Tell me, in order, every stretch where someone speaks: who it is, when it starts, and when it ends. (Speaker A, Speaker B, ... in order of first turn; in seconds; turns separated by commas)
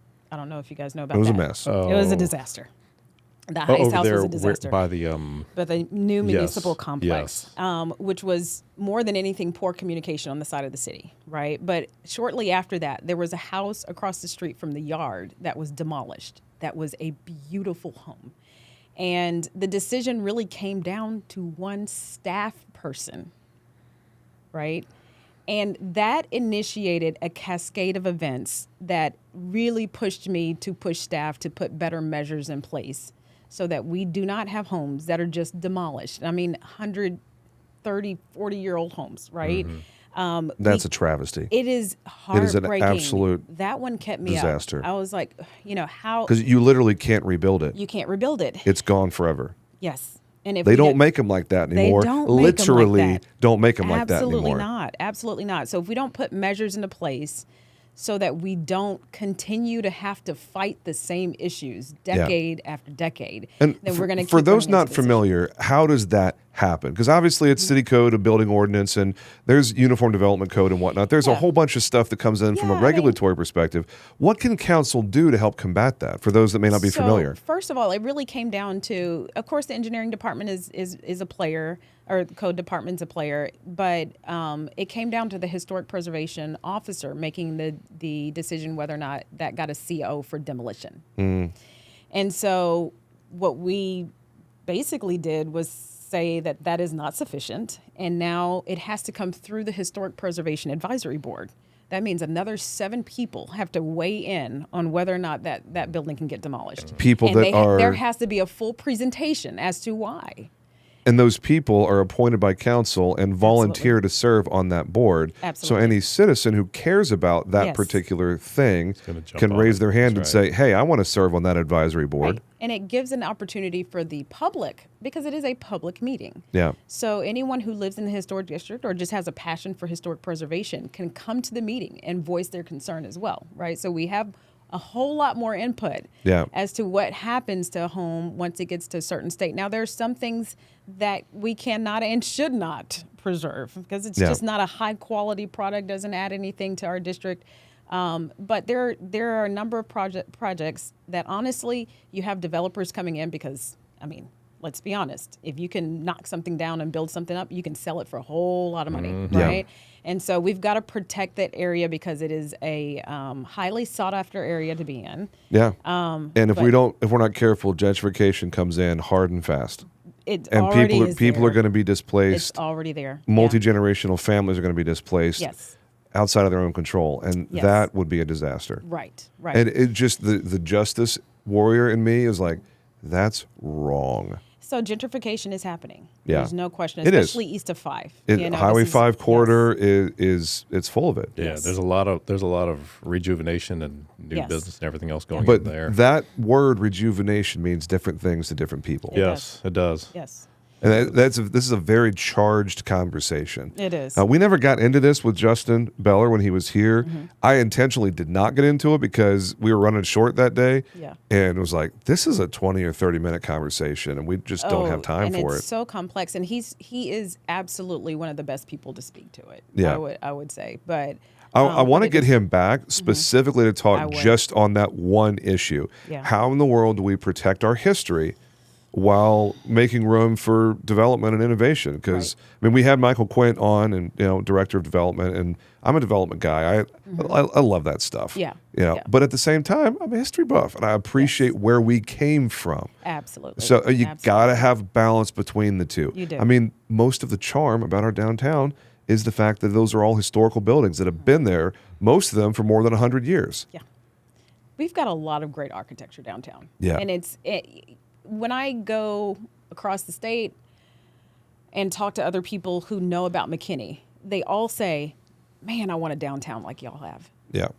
Speaker A: 0.3-2.7, Speaker B: 1.1-1.7, Speaker C: 1.6-2.3, Speaker A: 3.5-4.8, Speaker C: 3.7-5.5, Speaker A: 5.5-18.4, Speaker C: 6.2-7.5, Speaker A: 19.0-23.3, Speaker A: 24.5-24.9, Speaker A: 25.5-37.2, Speaker A: 37.8-40.9, Speaker C: 39.4-39.8, Speaker B: 40.6-41.5, Speaker A: 41.5-46.4, Speaker B: 42.3-43.5, Speaker B: 44.2-44.9, Speaker B: 46.3-47.8, Speaker A: 47.8-48.7, Speaker B: 48.6-49.5, Speaker A: 49.8-51.0, Speaker B: 50.6-54.7, Speaker A: 51.7-53.2, Speaker A: 53.8-65.2, Speaker B: 63.6-77.4, Speaker A: 72.5-73.2, Speaker A: 76.7-91.1, Speaker B: 91.2-91.5, Speaker A: 92.1-94.1, Speaker A: 94.7-110.5, Speaker B: 107.0-108.0, Speaker B: 111.0-122.4, Speaker A: 113.4-114.0, Speaker A: 115.4-116.0, Speaker A: 117.6-118.0, Speaker C: 119.0-120.4, Speaker A: 122.2-165.3, Speaker B: 136.2-136.5, Speaker C: 158.9-159.6, Speaker B: 159.3-159.6, Speaker B: 165.5-165.8, Speaker A: 165.8-166.7, Speaker B: 166.3-169.8, Speaker A: 170.3-171.6, Speaker B: 170.5-172.6, Speaker A: 172.3-173.6, Speaker B: 173.3-175.5, Speaker A: 175.4-175.8, Speaker B: 176.1-178.8, Speaker A: 177.5-177.9, Speaker A: 178.8-179.7, Speaker B: 179.5-184.4, Speaker A: 184.6-189.7, Speaker B: 186.3-186.5, Speaker B: 187.0-187.4, Speaker B: 188.3-191.3, Speaker C: 191.4-196.0, Speaker A: 191.4-191.7, Speaker A: 194.3-194.7, Speaker B: 195.4-199.2, Speaker A: 199.1-199.5, Speaker C: 199.1-200.1, Speaker A: 200.1-200.5, Speaker C: 200.8-201.1, Speaker B: 200.8-215.6, Speaker A: 203.7-204.2, Speaker A: 207.0-207.3, Speaker A: 214.6-222.3, Speaker B: 219.8-220.0, Speaker B: 221.5-228.4, Speaker A: 222.9-223.3, Speaker A: 223.9-224.4, Speaker B: 228.9-242.9, Speaker A: 237.1-237.4, Speaker A: 238.3-239.1, Speaker A: 243.0-244.7, Speaker B: 243.6-253.7, Speaker A: 246.1-246.5, Speaker A: 254.8-260.6, Speaker A: 261.7-267.3